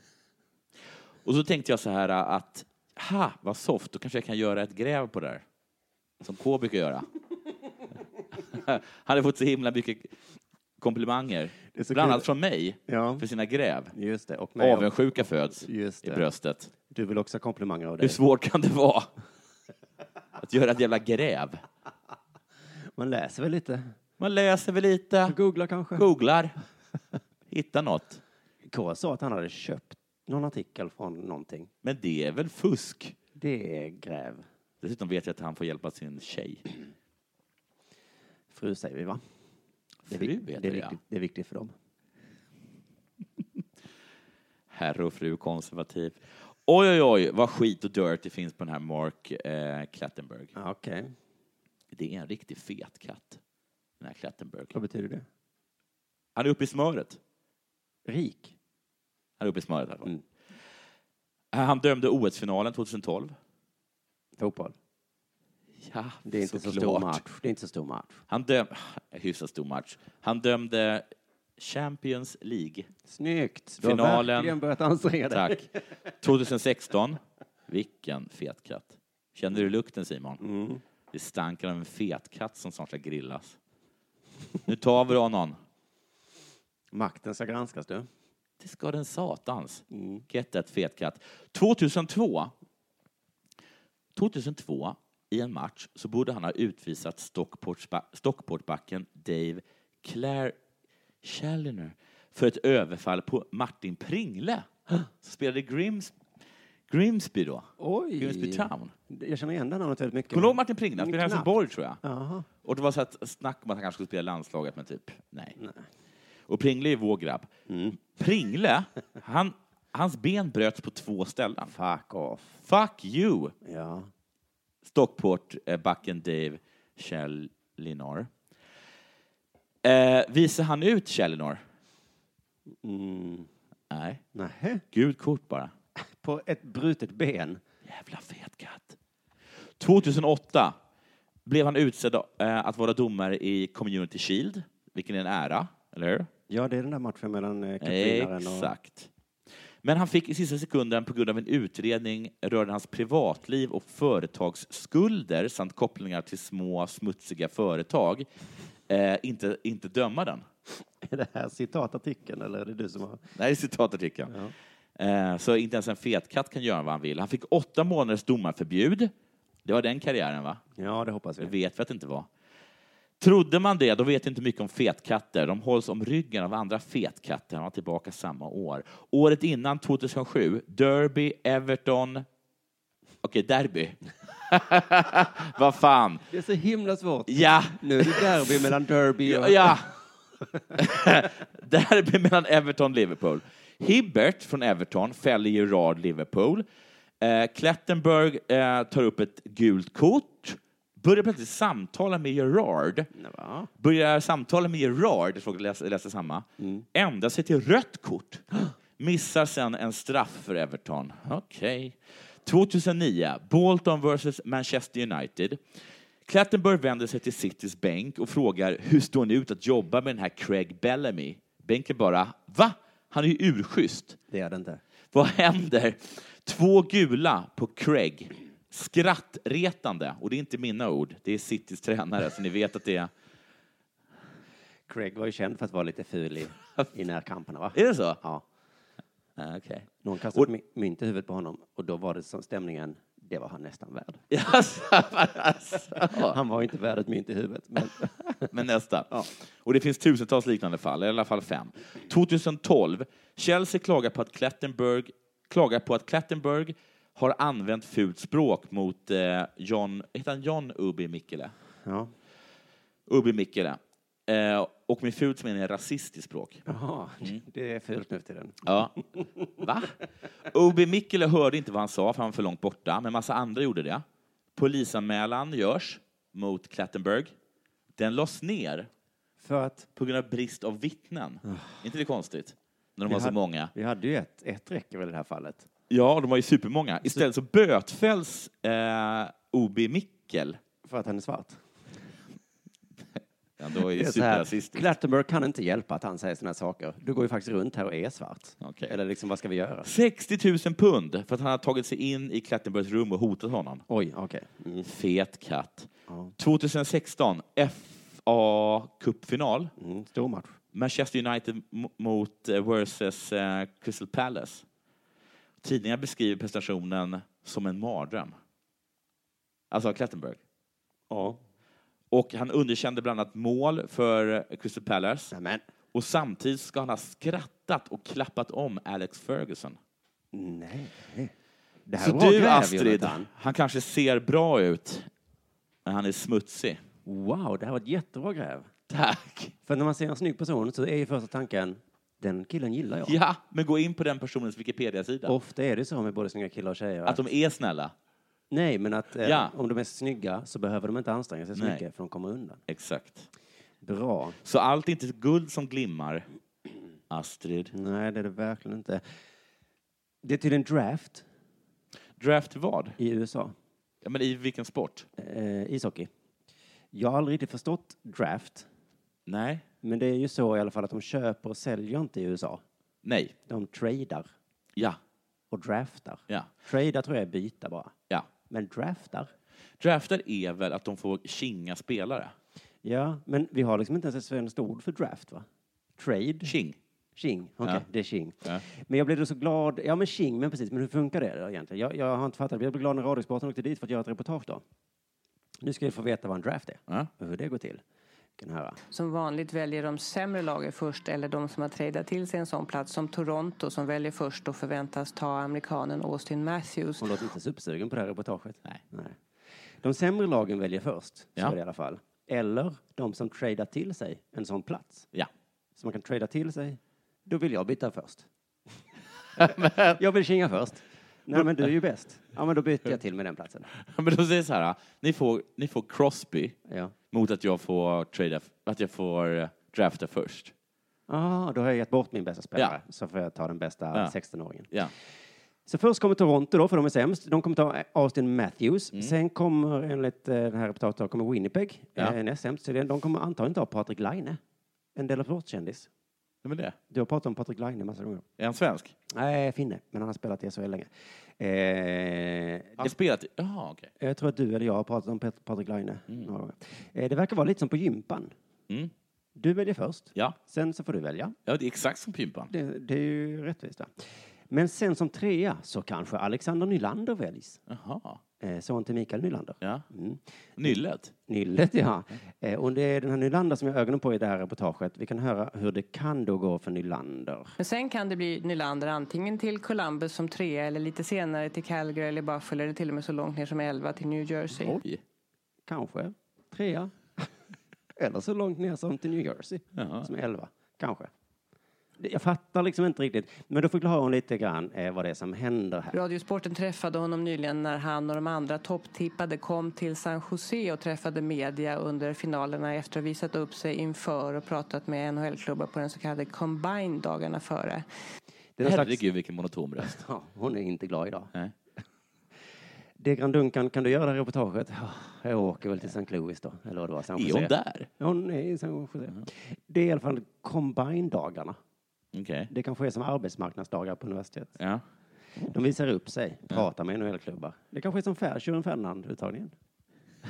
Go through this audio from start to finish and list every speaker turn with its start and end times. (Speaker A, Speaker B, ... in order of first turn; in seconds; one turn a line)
Speaker A: 1.2-5.4
Speaker A: 6.2-7.1
Speaker A: 8.4-10.1
Speaker A: 10.8-13.9
Speaker B: 11.7-12.3
Speaker B: 12.9-13.2
Speaker B: 13.9-16.2
Speaker A: 14.6-16.7
Speaker B: 16.9-18.2
Speaker A: 18.0-19.1
Speaker A: 20.4-21.6
Speaker B: 23.0-23.9
Speaker A: 24.2-25.4
Speaker B: 25.3-26.1
Speaker A: 25.9-26.5
Speaker A: 27.5-28.2
Speaker B: 28.7-31.7
Speaker A: 31.8-33.2
Speaker B: 33.4-34.5
Speaker A: 34.8-36.6
Speaker B: 38.5-39.2
Speaker A: 40.0-41.0
Speaker B: 40.1-41.7
Speaker A: 44.7-50.5
Speaker B: 50.5-51.1
Speaker A: 51.9-53.4
Speaker A: 54.0-54.7
Speaker B: 54.7-55.2
Speaker A: 56.4-57.2
Speaker B: 58.1-58.5
Speaker A: 59.4-60.1
Speaker A: 61.5-63.4
Speaker B: 64.4-64.8
Speaker A: 65.8-67.2
Speaker B: 66.2-68.2
Speaker A: 68.3-71.1
Speaker A: 71.6-72.9
Speaker B: 73.1-75.7
Speaker A: 73.8-74.6
Speaker A: 75.3-75.7
Speaker A: 76.2-80.4
Speaker B: 80.4-80.8
Speaker A: 81.1-83.6
Speaker A: 84.7-85.6
Speaker B: 86.9-88.1
Speaker A: 88.6-92.5
Speaker B: 89.9-90.2
Speaker A: 94.1-100.6
Speaker A: 101.2-104.7
Speaker A: 105.2-106.1
Speaker A: 106.9-108.9
Speaker B: 107.8-111.5
Speaker A: 110.3-112.0
Speaker B: 112.0-112.5
Speaker A: 112.6-115.6
Speaker B: 115.6-115.8
Speaker A: 116.5-121.7
Speaker B: 117.7-118.0
Speaker B: 121.7-122.6
Speaker A: 122.6-123.5
Speaker B: 123.6-124.1
Speaker A: 124.8-128.3
Speaker A: 129.8-131.6
Speaker B: 132.8-133.5
Speaker A: 133.9-134.2
Speaker B: 134.3-134.8
Speaker A: 134.9-135.7
Speaker B: 136.2-137.6
Speaker A: 137.8-139.0
Speaker A: 139.8-140.8
Speaker A: 141.5-146.3
Speaker B: 146.5-148.7
Speaker A: 147.8-149.1
Speaker A: 149.8-158.3
Speaker A: 158.9-160.4
Speaker B: 161.0-163.2
Speaker A: 163.4-164.3
Speaker B: 164.3-164.5
Speaker A: 165.0-169.1
Speaker A: 169.6-170.6
Speaker B: 170.8-171.5
Speaker A: 171.4-172.3
Speaker A: 173.2-182.3
Speaker A: 183.2-186.3
Speaker B: 186.3-189.8
Speaker A: 187.3-188.7
Speaker A: 189.2-189.9
Speaker A: 190.8-196.7
Speaker A: 197.2-203.1
Speaker B: 203.1-203.7
Speaker A: 203.8-208.4
Speaker B: 206.6-206.9
Speaker A: 209.0-215.6
Speaker A: 216.3-224.2
Speaker B: 224.3-224.8
Speaker A: 225.1-233.1
Speaker B: 234.9-238.4
Speaker A: 237.8-238.2
Speaker A: 239.4-240.5
Speaker B: 240.0-244.2
Speaker A: 244.3-246.4
Speaker B: 245.9-248.5
Speaker A: 248.4-261.5
Speaker B: 261.9-262.1
Speaker A: 263.1-266.6
Speaker B: 266.7-269.6
Speaker A: 268.6-268.9
Speaker A: 269.6-270.0
Speaker A: 270.5-274.0
Speaker A: 274.6-277.3
Speaker A: 278.0-278.9
Speaker B: 279.4-279.9
Speaker A: 280.0-283.7
Speaker B: 281.5-281.8
Speaker B: 283.1-285.7
Speaker A: 285.9-290.6
Speaker B: 290.9-291.6
Speaker A: 293.6-294.9
Speaker B: 293.9-299.9
Speaker A: 298.6-298.9
Speaker A: 299.8-303.9
Speaker B: 303.9-304.9
Speaker A: 304.8-309.7
Speaker B: 306.1-306.3
Speaker B: 309.8-310.6
Speaker A: 310.7-314.6
Speaker A: 315.6-318.4
Speaker A: 319.7-320.4
Speaker B: 321.1-321.4
Speaker A: 322.1-325.3
Speaker B: 325.3-325.6
Speaker A: 325.9-329.8
Speaker B: 330.3-331.3
Speaker B: 331.9-333.3
Speaker A: 332.0-335.1
Speaker A: 335.9-336.8
Speaker B: 337.1-338.7
Speaker A: 338.9-339.6
Speaker B: 339.7-343.2
Speaker A: 343.1-345.4
Speaker B: 345.3-347.2
Speaker A: 347.1-347.9
Speaker B: 348.5-352.6
Speaker A: 349.2-349.5
Speaker A: 351.6-351.8
Speaker A: 352.7-353.3
Speaker B: 353.8-354.4
Speaker A: 354.4-356.3
Speaker A: 357.1-357.7
Speaker B: 357.7-359.0
Speaker B: 360.2-361.2
Speaker A: 362.2-363.0
Speaker B: 363.0-363.5
Speaker A: 364.0-365.1
Speaker B: 365.2-366.1
Speaker B: 366.9-368.7
Speaker A: 369.3-369.6
Speaker B: 369.8-372.6
Speaker A: 373.0-373.3
Speaker B: 373.5-374.3
Speaker B: 375.5-377.9
Speaker B: 378.5-379.3
Speaker A: 379.8-382.4
Speaker B: 382.8-385.5
Speaker B: 386.0-386.5
Speaker A: 386.4-386.8
Speaker B: 387.2-394.6
Speaker B: 395.6-397.8
Speaker B: 398.4-398.8
Speaker C: 398.9-407.2
Speaker B: 407.0-409.2
Speaker B: 409.8-415.1
Speaker B: 415.8-418.3
Speaker A: 419.4-420.0
Speaker B: 419.6-423.7
Speaker A: 423.8-426.6
Speaker B: 426.7-426.9
Speaker A: 427.1-430.5
Speaker B: 431.1-434.7
Speaker B: 435.7-444.4
Speaker B: 445.0-445.9
Speaker A: 446.4-446.8
Speaker B: 446.9-448.2
Speaker A: 448.4-448.9
Speaker B: 449.1-452.9
Speaker A: 452.8-453.9
Speaker B: 454.0-458.3
Speaker B: 459.4-461.4
Speaker A: 461.5-462.5
Speaker B: 462.5-467.6
Speaker A: 467.7-468.2
Speaker B: 468.4-470.7
Speaker A: 470.6-471.1
Speaker B: 471.3-477.5
Speaker C: 477.6-484.8
Speaker A: 484.7-485.0
Speaker B: 485.7-487.3
Speaker B: 488.0-491.1
Speaker A: 489.8-490.1
Speaker B: 492.0-495.9
Speaker C: 495.9-507.9
Speaker B: 508.6-509.0
Speaker A: 508.6-510.0
Speaker B: 509.8-511.3
Speaker B: 513.0-521.6
Speaker A: 517.1-517.9
Speaker A: 522.1-522.5
Speaker B: 522.5-524.6
Speaker B: 525.5-529.5